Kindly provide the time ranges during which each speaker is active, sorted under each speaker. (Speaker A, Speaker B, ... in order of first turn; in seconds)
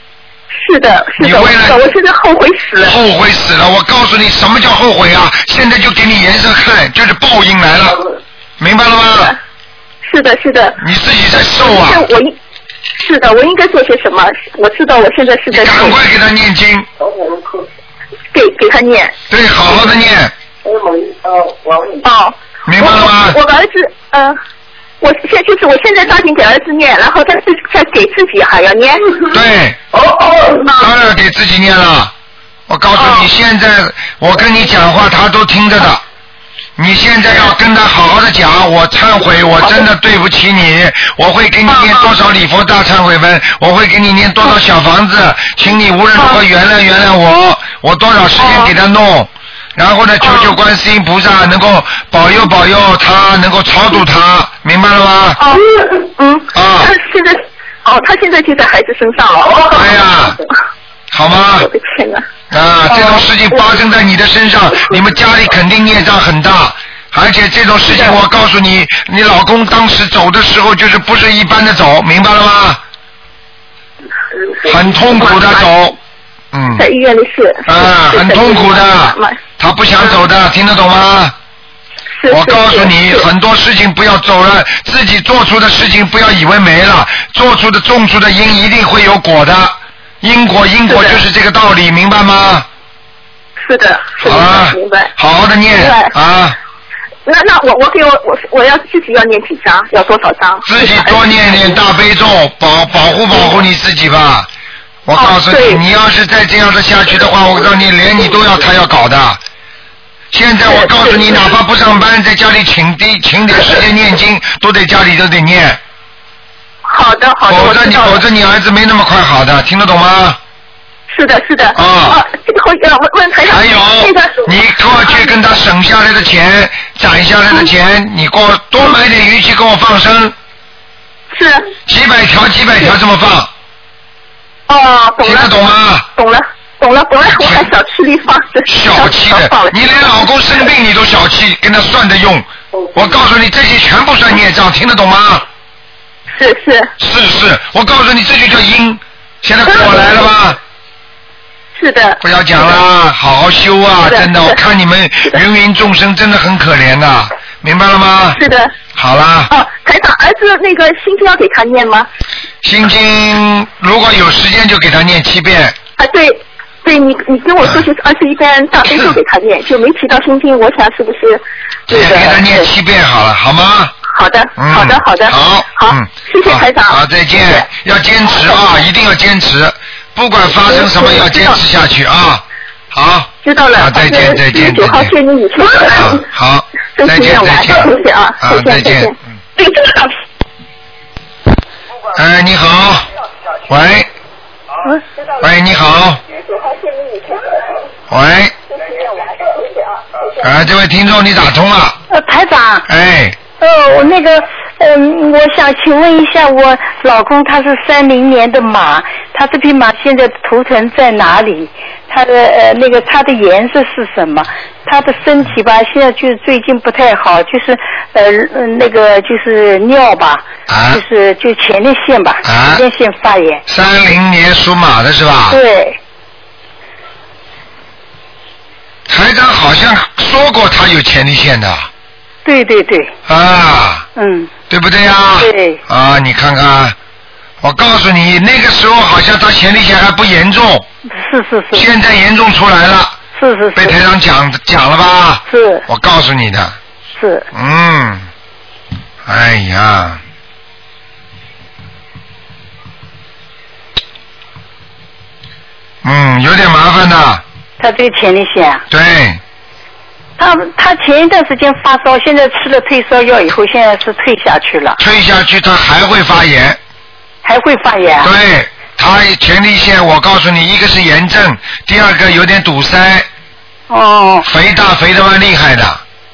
Speaker A: 0.5-3.0, 10.0-10.8, 11.6-12.3, 13.0-16.0, 18.3-19.1, 21.8-24.4, 25.0-29.2, 30.5-30.9, 32.9-33.3, 39.6-39.8, 41.7-42.1, 46.1-46.4, 48.4-48.7, 50.2-50.5, 55.4-60.5, 61.6-62.2, 62.9-63.7, 64.7-65.0, 67.9-68.2, 74.9-75.7, 76.7-79.4, 82.2-83.3, 90.9-91.2, 93.6-95.1, 95.7-96.1, 97.2-101.8, 105.1-105.8, 110.6-111.5, 116.8-118.2, 121.1-124.5, 131.3-131.7, 134.7-139.7, 146.3-146.9, 149.7-150.0, 151.8-152.8, 154.0-154.6, 158.3-158.7, 159.5-162.1, 166.0-172.7, 174.1-177.7, 178.3-178.6, 180.5-181.6, 183.4-186.2, 186.9-190.1, 196.6-197.5
Speaker B: 1.2-1.8, 2.8-8.0, 8.6-9.3, 10.8-12.1, 15.5-16.9, 19.3-20.3, 22.6-23.4, 29.3-29.8, 30.7-32.1, 32.7-36.0, 36.8-55.5, 56.5-56.9, 59.7-60.4, 61.1-61.7, 62.5-72.8, 74.6-76.0, 76.5-76.8, 77.7-81.3, 82.3-92.7, 94.2-96.5, 100.6-104.5, 105.0-109.4, 110.3-115.8, 117.5-120.4, 121.7-122.2, 123.4-130.3, 131.8-133.5, 135.2-136.1, 137.3-137.7, 138.7-145.4, 147.0-150.6, 152.2-158.4, 158.9-159.5, 162.6-165.8, 171.9-173.9, 174.6-185.1, 185.8-187.9, 188.4-189.1, 192.1-193.1, 193.7-194.1, 195.4-196.2, 198.1-198.5, 200.4-202.0, 202.9-203.3, 220.7-221.0, 222.4-222.8, 223.7-225.6, 229.1-231.9, 233.3-234.1, 234.7-236.9, 237.6-240.8, 241.7-243.2, 243.8-246.8, 247.5-248.2, 249.2-250.2, 256.0-257.4, 258.9-259.4, 265.0-266.8, 268.2-273.3, 274.4-276.0
Speaker C: 202.1-202.9, 203.6-223.6, 225.5-226.0, 232.4-233.1, 234.2-234.5, 235.4-235.8, 241.1-241.9, 243.3-244.0, 245.5-245.8, 247.2-247.5, 257.8-258.8, 260.4-265.0, 267.4-268.3, 273.9-274.5